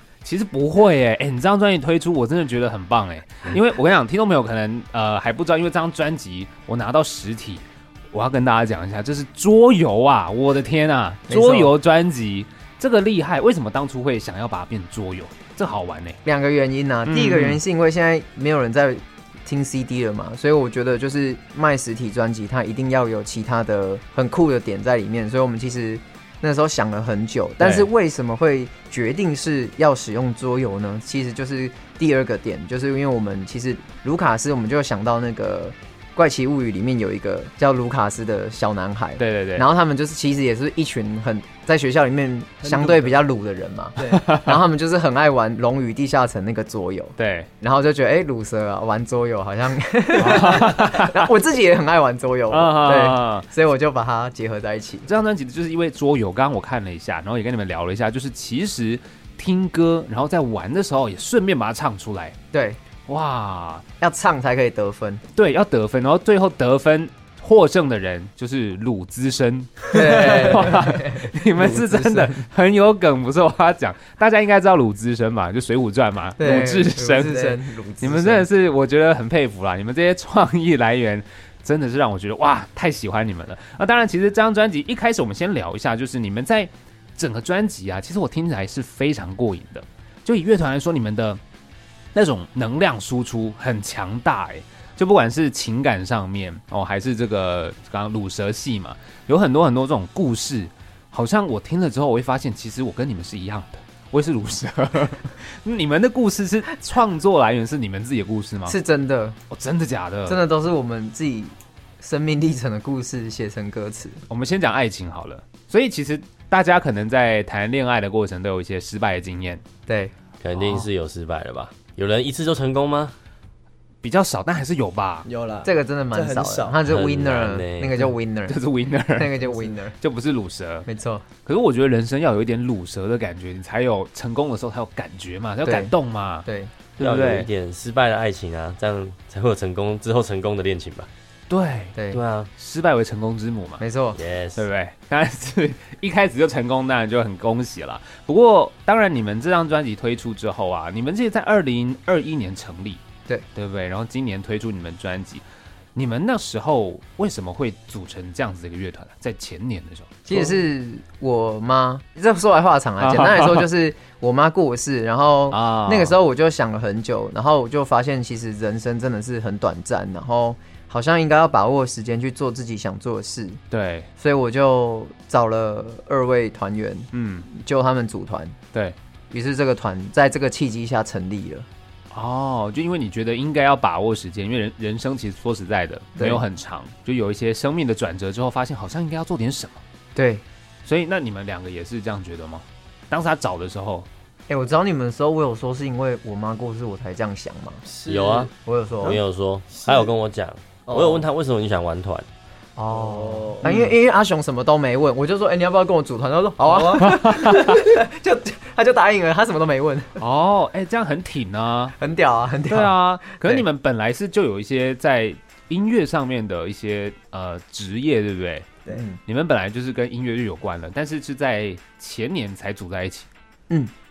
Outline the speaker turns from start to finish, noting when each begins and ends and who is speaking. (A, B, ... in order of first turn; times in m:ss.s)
0:00.2-0:16.2 A
0:11.3-0:11.7 B
0:16.2-0:55.1 B
0:17.0-0:17.6 A
0:27.6-0:27.9 A
0:39.2-0:39.7 A
0:42.6-0:43.2 C
0:44.0-0:44.3 C
0:44.1-0:44.6 A
0:47.2-0:47.5 A
0:50.2-0:51.3 A
0:52.5-0:53.5 A
0:55.1-1:02.4 A
1:02.5-1:02.8 B
1:03.1-1:03.8 A
1:04.0-1:05.2 B
1:05.4-1:31.4 A
1:09.9-1:12.4 B
1:16.4-1:18.5 B
1:32.1-1:48.8 A
1:48.7-1:49.4 B
1:49.5-1:50.4 A
1:50.3-1:54.2 B
1:54.3-1:59.6 A
1:59.9-2:00.1 B
2:00.4-2:03.2 D
2:00.6-2:00.9 A
2:04.0-2:05.3 A
2:05.2-2:06.8 C
2:05.6-2:08.6 B
2:06.8-2:08.0 D
2:08.5-2:09.4 A
2:09.2-2:10.0 B
2:10.0-2:10.9 A
2:10.9-2:11.2 B
2:11.5-2:16.5 A
2:15.6-2:15.9 B
2:16.4-2:16.7 B
2:17.0-2:17.5 A
2:17.0-2:21.1 D
2:21.5-2:22.0 A
2:22.0-2:22.2 B
2:22.1-2:22.5 D
2:22.6-2:23.8 A
2:23.8-2:24.2 B
2:24.2-2:24.7 D
2:24.6-2:33.0 A
2:33.6-2:35.4 A
2:36.0-2:40.5 A
2:40.3-2:53.6 B
2:43.0-2:43.7 A
2:45.5-2:46.2 A
2:53.7-2:54.1 A
2:54.2-2:58.6 B
2:57.1-2:57.5 A
2:59.3-3:01.7 B
3:02.1-3:09.8 A
3:06.2-3:06.4 B
3:10.2-3:10.4 B
3:10.9-3:14.1 A
3:14.5-3:17.8 B
3:17.9-3:18.5 C
3:18.1-3:18.5 D
3:18.6-3:19.2 B
3:19.0-3:22.3 D
3:19.8-3:20.1 C
3:20.9-3:21.3 C
3:22.8-3:30.2 B
3:22.9-3:23.8 C
3:23.6-3:23.9 A
3:26.6-3:27.3 C
3:27.0-3:27.8 A
3:30.2-3:32.0 A
3:32.0-3:33.6 B
3:32.7-3:38.7 A
3:38.9-3:39.2 B
3:39.3-3:43.3 A